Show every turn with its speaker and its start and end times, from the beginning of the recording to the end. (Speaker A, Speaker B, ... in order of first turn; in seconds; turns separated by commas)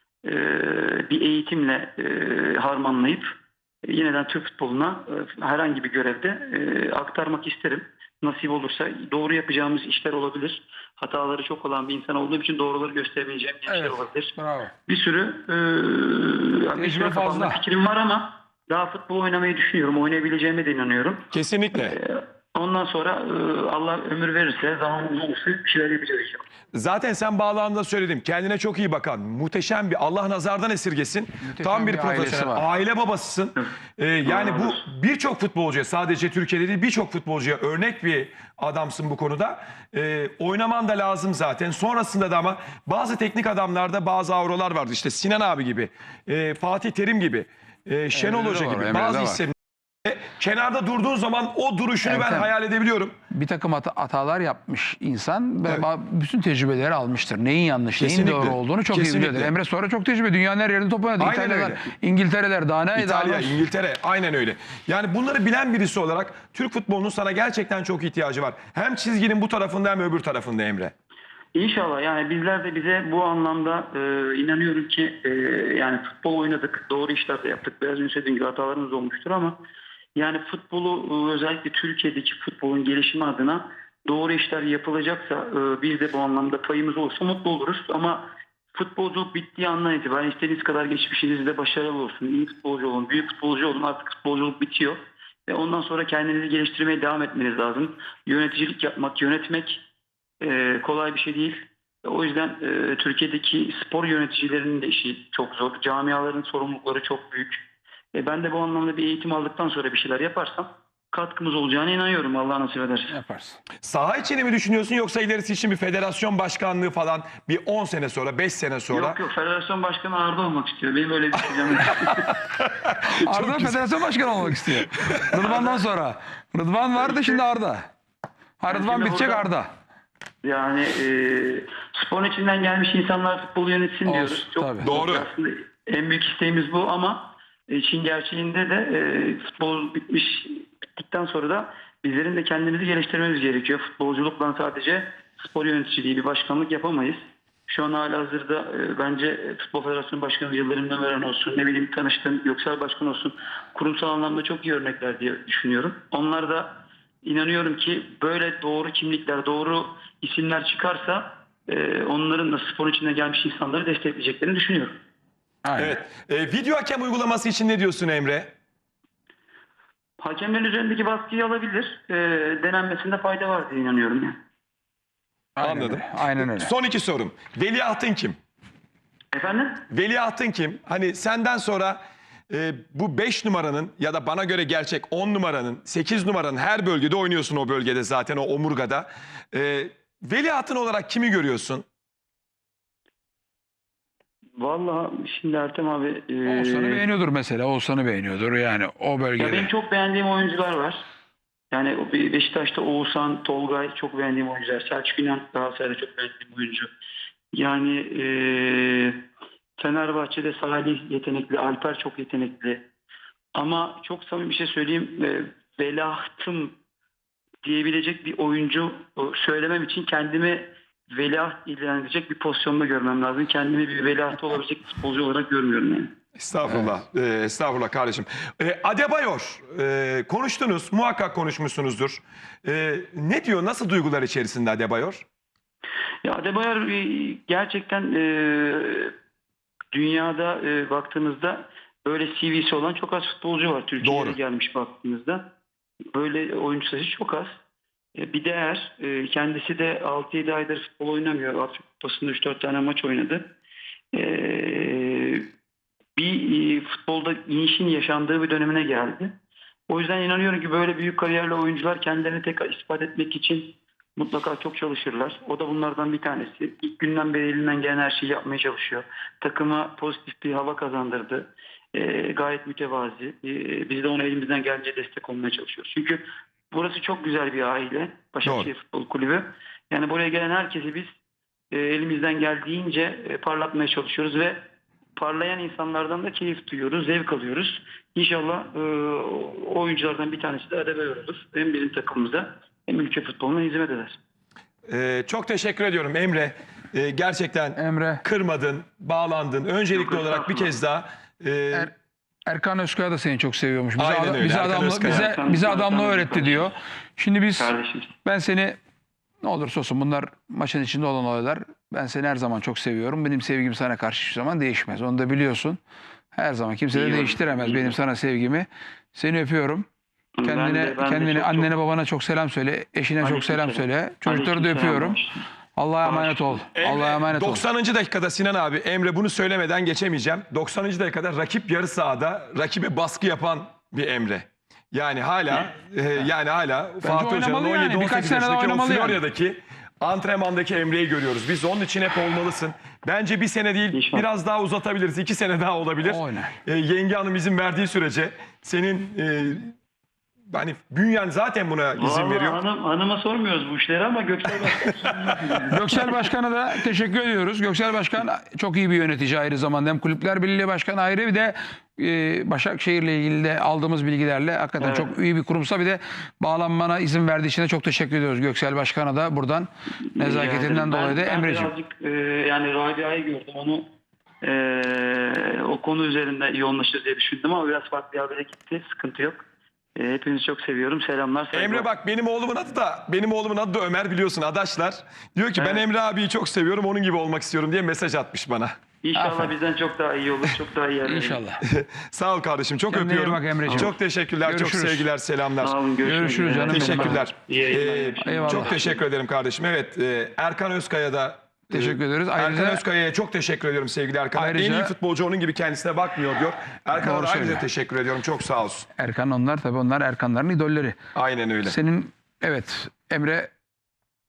Speaker A: 0.2-3.3, Speaker A: 3.8-14.3, Speaker B: 13.7-14.7, Speaker A: 14.9-26.4, Speaker B: 16.8-17.6, Speaker C: 21.3-22.0, Speaker C: 26.7-53.1, Speaker B: 31.4-32.6, Speaker A: 34.2-34.8, Speaker B: 48.1-49.4, Speaker B: 52.0-52.5, Speaker B: 53.3-63.6, Speaker C: 58.0-59.5, Speaker C: 61.2-61.9, Speaker C: 63.0-70.9, Speaker A: 71.5-79.6, Speaker A: 80.2-99.8, Speaker A: 100.4-107.6, Speaker A: 108.1-113.2, Speaker B: 113.1-113.6, Speaker C: 113.8-119.2, Speaker A: 118.9-122.4, Speaker C: 122.1-125.7, Speaker B: 123.1-127.9, Speaker B: 128.6-129.7, Speaker A: 128.7-129.5, Speaker A: 130.4-165.0, Speaker B: 134.1-134.9, Speaker C: 134.8-135.3, Speaker B: 165.6-165.9, Speaker C: 165.8-168.5, Speaker A: 170.2-174.4, Speaker B: 175.6-176.7, Speaker C: 175.6-178.4, Speaker A: 179.3-179.8, Speaker C: 179.9-191.9, Speaker A: 194.6-197.0, Speaker B: 196.4-199.7, Speaker A: 199.4-201.1, Speaker A: 201.7-206.9, Speaker A: 207.5-209.2, Speaker A: 209.8-212.8, Speaker A: 213.6-216.8, Speaker A: 217.6-226.1, Speaker C: 226.4-235.2, Speaker A: 236.2-239.1, Speaker A: 239.9-245.4, Speaker C: 244.0-244.4, Speaker A: 246.1-247.6, Speaker A: 248.1-253.5, Speaker A: 254.1-255.5, Speaker A: 256.1-259.3, Speaker A: 259.9-281.1, Speaker C: 278.4-278.7, Speaker A: 281.7-284.6, Speaker A: 285.1-294.2, Speaker C: 294.9-301.9, Speaker B: 297.8-298.2, Speaker A: 299.9-300.8, Speaker B: 302.5-307.7, Speaker C: 304.0-305.3, Speaker A: 305.0-306.7, Speaker A: 307.6-308.1, Speaker B: 308.2-308.8, Speaker B: 309.4-315.8, Speaker B: 316.3-319.9, Speaker A: 316.9-318.0, Speaker A: 320.4-321.7, Speaker B: 320.4-325.2, Speaker A: 323.2-325.4, Speaker B: 325.8-327.6, Speaker A: 326.0-326.5, Speaker C: 326.7-349.8, Speaker B: 337.0-339.2, Speaker A: 343.9-344.2, Speaker B: 346.0-346.5, Speaker C: 350.5-352.6, Speaker A: 352.0-356.2, Speaker C: 354.8-355.6, Speaker B: 355.7-371.7, Speaker A: 364.8-365.1, Speaker A: 370.1-373.9, Speaker A: 374.4-379.4, Speaker A: 380.0-381.9, Speaker C: 381.5-388.8, Speaker A: 385.6-385.8, Speaker A: 389.0-391.4, Speaker B: 389.1-389.5, Speaker B: 391.0-391.6, Speaker C: 391.6-395.7, Speaker B: 392.9-393.9, Speaker B: 394.4-395.1, Speaker A: 395.6-399.0, Speaker B: 396.0-397.2, Speaker C: 396.7-408.9, Speaker B: 398.2-398.8, Speaker B: 401.7-402.8, Speaker B: 404.4-404.9, Speaker B: 407.0-407.6, Speaker B: 409.0-411.0, Speaker C: 411.1-411.8, Speaker B: 411.6-413.5